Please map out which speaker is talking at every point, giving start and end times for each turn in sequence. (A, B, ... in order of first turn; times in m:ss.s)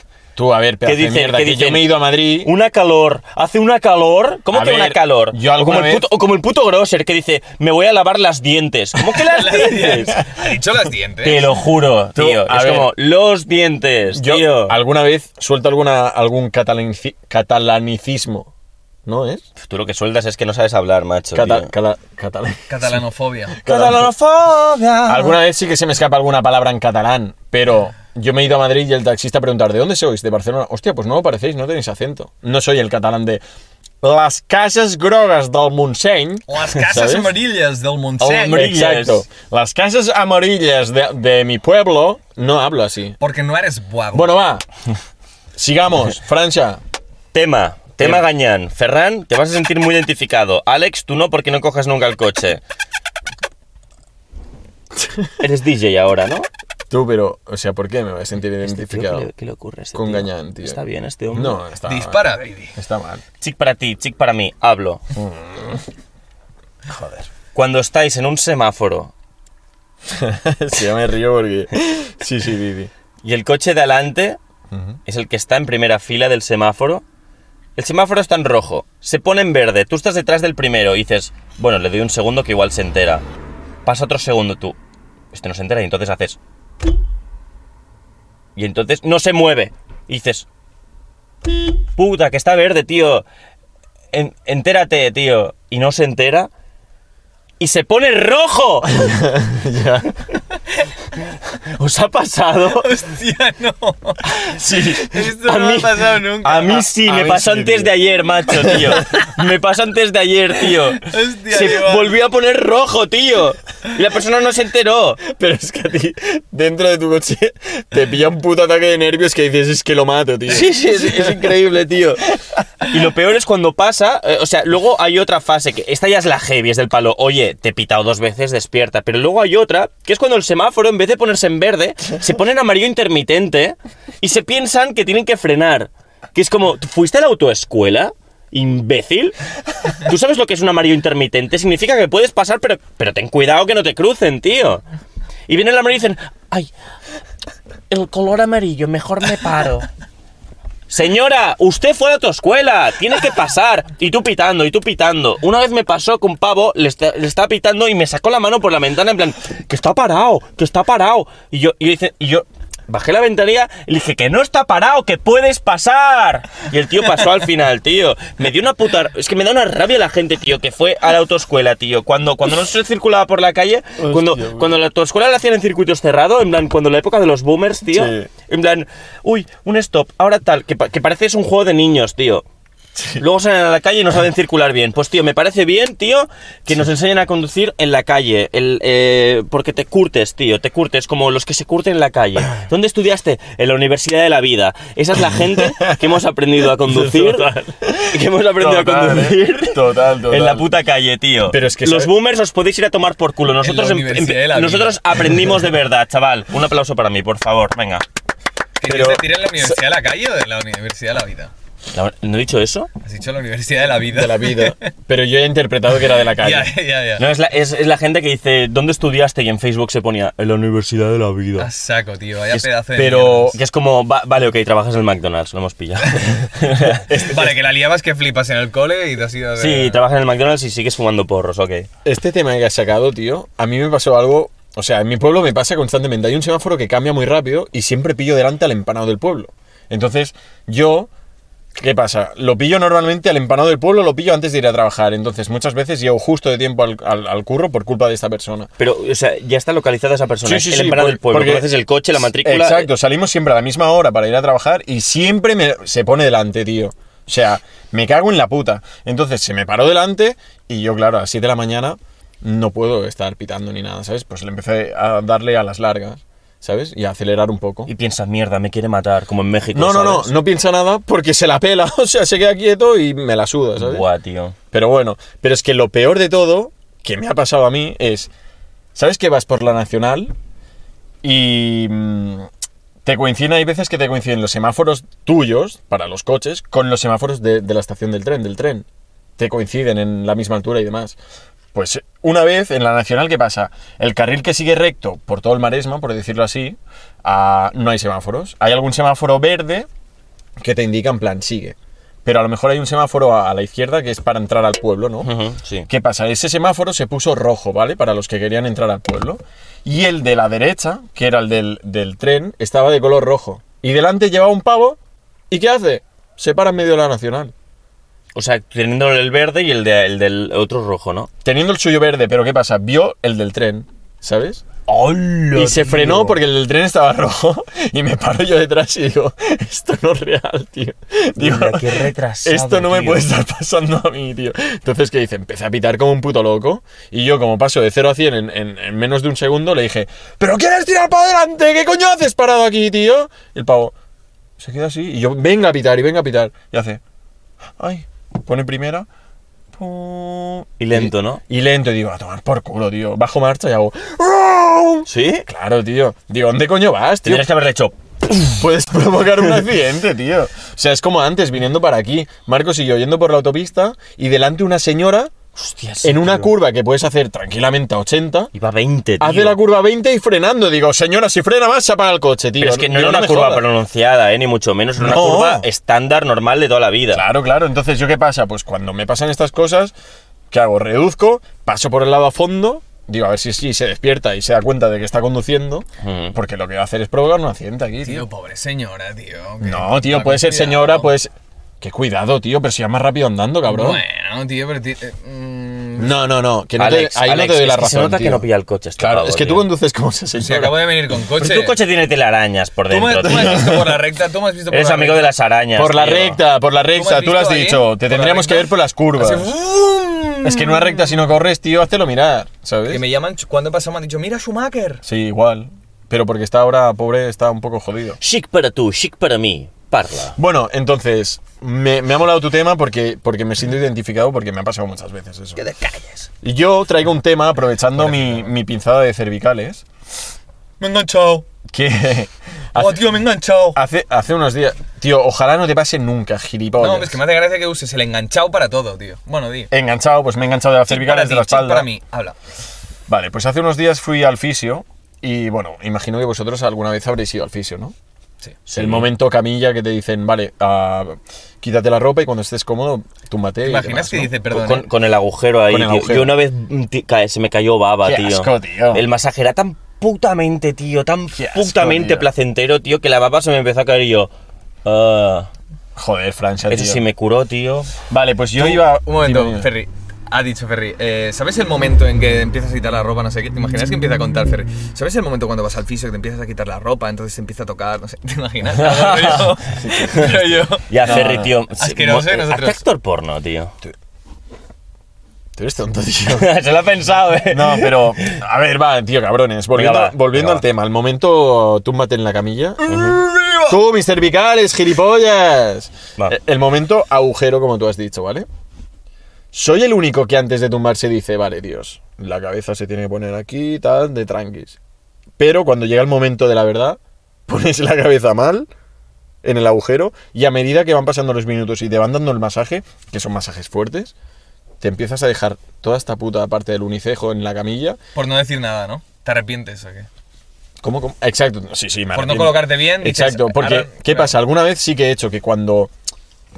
0:00.4-0:02.5 A
0:00.8-0:10.2 B
0:04.5-0:06.1 A
0:09.1-0:11.5 C
0:11.2-0:14.8 B
0:12.1-0:12.9 A
0:14.1-0:18.5 A
0:19.0-0:19.4 A
0:19.6-0:21.7 B
0:21.3-0:23.0 A
0:22.7-0:23.6 C
0:23.6-0:24.1 A
0:23.6-0:25.4 B
0:25.0-0:33.4 A
0:34.0-0:37.4 A
0:36.5-0:38.8 C
0:38.2-0:39.2 B
0:38.5-0:43.2 A
0:43.2-0:44.4 C
0:44.1-0:44.6 A
0:45.6-0:46.8 A
0:47.3-0:52.6 B
0:55.4-0:56.5 B
0:56.9-0:59.3 A
0:58.6-1:01.6 B
0:59.9-1:00.8 A
1:01.3-1:03.2 A
1:01.8-1:02.8 C
1:03.4-1:05.0 B
1:05.1-1:05.8 A
1:06.9-1:07.3 A
1:07.5-1:09.1 B
1:10.0-1:12.9 A
1:13.2-1:14.4 B
1:14.7-1:15.0 A
1:15.0-1:17.0 B
1:17.8-1:23.2 B
1:23.8-1:24.8 B
1:25.3-1:26.4 B
1:28.6-1:30.4 B
1:32.0-1:33.2 B
1:34.1-1:36.5 B
1:37.6-1:39.1 B
1:39.0-1:40.1 A
1:41.7-1:42.9 B
1:42.7-1:44.4 C
1:44.5-1:55.2 B
1:44.5-1:45.2 A
1:45.0-1:46.8 C
1:46.9-1:48.0 A
1:48.5-1:49.1 A
1:51.0-1:52.1 C
1:55.2-2:01.6 A
2:00.5-2:02.2 B
2:02.4-2:02.8 A
2:02.8-2:19.3 B
2:19.9-2:24.8 B
2:25.5-2:26.7 B
2:27.9-2:29.9 B
2:30.9-3:02.4 B
2:54.0-2:54.7 A
2:57.9-2:58.3 A
3:03.0-3:03.2 A
3:03.2-3:28.0 B
3:15.5-3:16.0 A
3:16.8-3:20.7 A
3:21.5-3:22.1 A
3:23.6-3:25.4 C
3:28.8-3:31.5 C
3:28.9-3:29.6 A
3:31.9-3:32.9 B
3:33.0-3:34.9 C
3:34.0-3:36.7 A
3:36.3-3:37.2 C
3:37.2-3:41.7 B
3:41.6-3:43.6 C
3:43.0-3:43.6 A
3:43.5-3:47.0 B
3:46.9-3:47.5 A
3:47.2-3:50.0 C
3:49.6-3:51.9 B
3:52.0-4:01.1 A
4:01.7-4:08.7 A
4:08.8-4:12.9 B
4:10.4-4:27.9 A
4:27.9-4:30.3 B
4:29.7-4:34.1 A
4:33.8-4:34.5 B
4:34.7-4:38.3 A
4:38.9-4:40.3 A
4:41.2-4:42.5 A
4:43.0-4:48.8 A
4:49.4-4:51.2 A
4:51.7-4:59.9 A
5:00.6-5:05.3 A
5:05.2-5:05.9 B
5:05.9-5:15.0 A
5:15.5-5:17.5 A
5:18.3-5:21.3 B
5:21.4-5:24.6 A
5:24.9-5:26.4 B
5:25.5-5:43.9 A
5:31.4-5:33.3 B
5:44.6-5:47.0 A
5:47.8-5:49.1 A
5:49.7-5:57.5 A
5:50.8-5:51.4 B
5:55.1-5:55.4 B
5:57.2-5:58.5 B
5:58.5-6:05.3 A
6:05.6-6:06.5 B
6:06.0-6:08.5 A
6:08.5-6:09.6 B
6:09.2-6:13.7 A
6:12.6-6:17.2 B
6:15.0-6:15.6 A
6:17.1-6:19.9 A
6:20.5-6:28.2 A
6:26.0-6:26.4 B
6:28.0-6:31.1 C
6:29.6-6:34.0 A
6:33.6-6:36.2 C
6:36.0-6:38.4 A
6:36.8-6:39.6 B
6:39.0-6:40.8 A
6:40.4-6:41.8 C
6:41.4-6:43.8 B
6:42.9-6:45.3 C
6:43.2-6:43.9 A
6:44.7-6:46.4 B
6:45.7-6:49.5 A
6:46.9-6:51.2 C
6:50.4-6:53.0 A
6:52.9-6:55.0 C
6:55.0-6:58.2 A
6:58.2-7:00.4 B
7:00.4-7:05.6 A
7:05.6-7:06.3 B
7:06.4-7:09.8 A
7:07.9-7:08.5 C
7:10.8-7:11.4 C
7:11.7-7:13.0 A
7:12.7-7:13.8 C
7:13.7-7:17.2 A
7:16.8-7:19.7 C
7:19.7-7:21.9 A
7:20.9-7:22.4 C
7:23.1-7:27.9 A
7:28.7-7:29.1 B
7:28.7-7:34.3 A
7:33.6-7:34.8 C
7:34.5-7:44.3 B
7:35.7-7:36.4 A
7:38.0-7:39.0 A
7:41.4-7:42.3 A
7:44.8-7:45.5 B
7:46.0-7:47.0 A
7:46.7-7:47.9 B
7:48.1-7:49.7 A
7:48.6-8:02.8 C
7:58.8-8:00.4 A
8:00.9-8:03.7 B
8:01.0-8:01.6 A
8:05.6-8:06.5 A
8:06.3-8:08.4 B
8:07.5-8:12.9 A
8:09.7-8:10.6 B
8:12.8-8:13.8 C
8:12.9-8:13.2 B
8:13.7-8:18.4 A
8:19.5-8:24.8 A
8:25.4-8:28.7 A
8:29.4-8:34.1 A
8:34.8-8:38.0 A
8:38.1-8:40.1 C
8:40.8-8:45.9 A
8:42.1-8:44.4 C